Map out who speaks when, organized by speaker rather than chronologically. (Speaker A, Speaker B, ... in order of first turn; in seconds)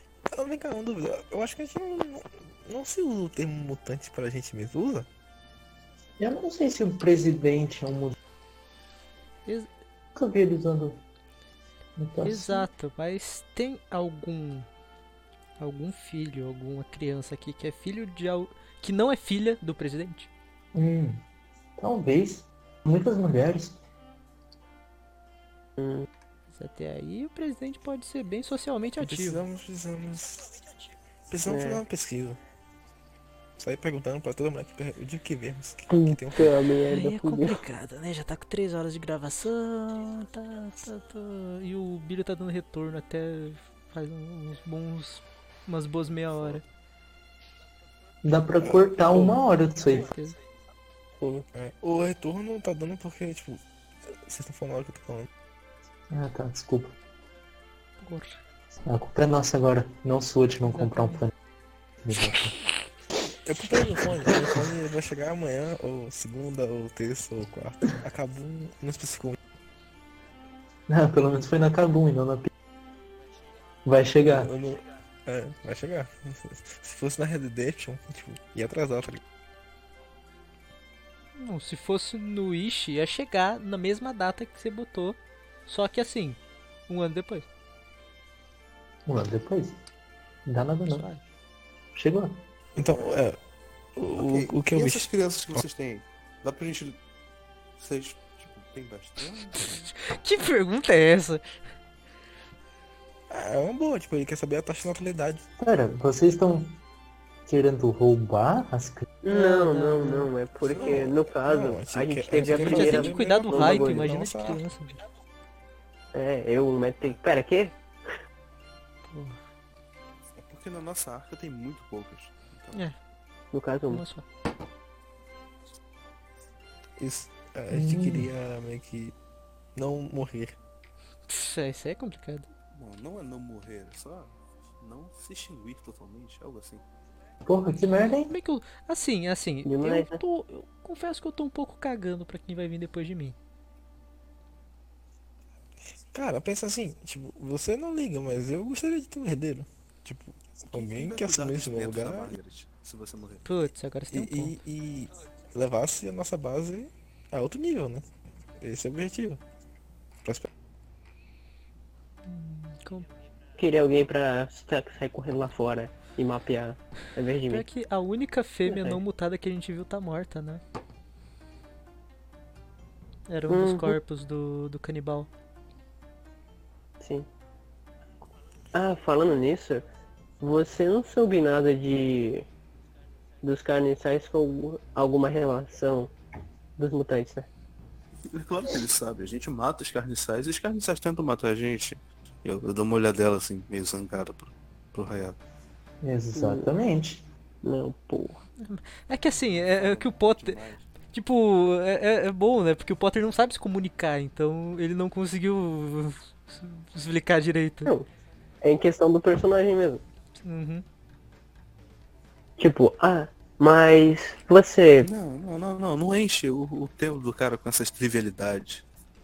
Speaker A: 0.3-5.1, 29.0-30.6, 31.3-32.4, 33.6-36.5, 51.5-53.6, 54.2-55.3, 63.5-69.4, 74.2-79.2, 92.8-93.4, 94.0-95.6, 103.3-105.5, 110.7-114.6, 127.0-129.2, 129.8-130.6, 146.1-152.4, 154.1-158.1, 158.6-159.4
Speaker B: 6.2-8.2, 10.2-11.0, 12.0-12.7, 20.7-21.2, 21.8-23.8, 48.2-50.1, 56.1-57.0, 58.9-61.3, 62.0-62.6, 70.9-72.5, 73.8-74.5, 89.1-89.8, 90.5-91.1, 92.0-92.4, 105.6-106.8, 107.5-109.0, 127.7-128.3, 137.4-138.3, 196.0-197.3
Speaker C: 12.2-14.7, 15.6-20.3, 26.6-29.4, 36.9-46.6, 49.9-50.4, 58.0-58.4, 60.7-61.2, 81.4-87.5, 90.9-91.2, 99.9-101.5, 109.3-110.3, 112.4-115.0, 119.1-119.4, 123.9-124.2, 131.3-132.5, 138.3-143.4, 153.4-154.6, 162.3-163.1, 167.5-170.6, 173.3-175.3, 198.6-200.6, 201.1-207.9, 210.4-210.8
Speaker D: 25.8-26.1, 31.5-31.8, 35.9-37.6, 51.2-51.5, 109.2-114.1, 116.1-118.1, 123.5-124.0, 139.7-140.2, 163.6-167.7, 168.7-169.0, 173.5-174.0, 177.0-177.3, 178.7-179.8, 180.4-182.5, 183.4-186.1, 186.8-187.5, 196.4-196.7, 197.6-198.4, 208.6-210.0, 212.6-215.1
Speaker E: 92.8-93.2, 94.2-97.0, 97.8-99.9, 120.4-122.8, 132.7-136.8, 150.7-153.4, 188.3-195.4, 199.6-200.9, 215.0-218.8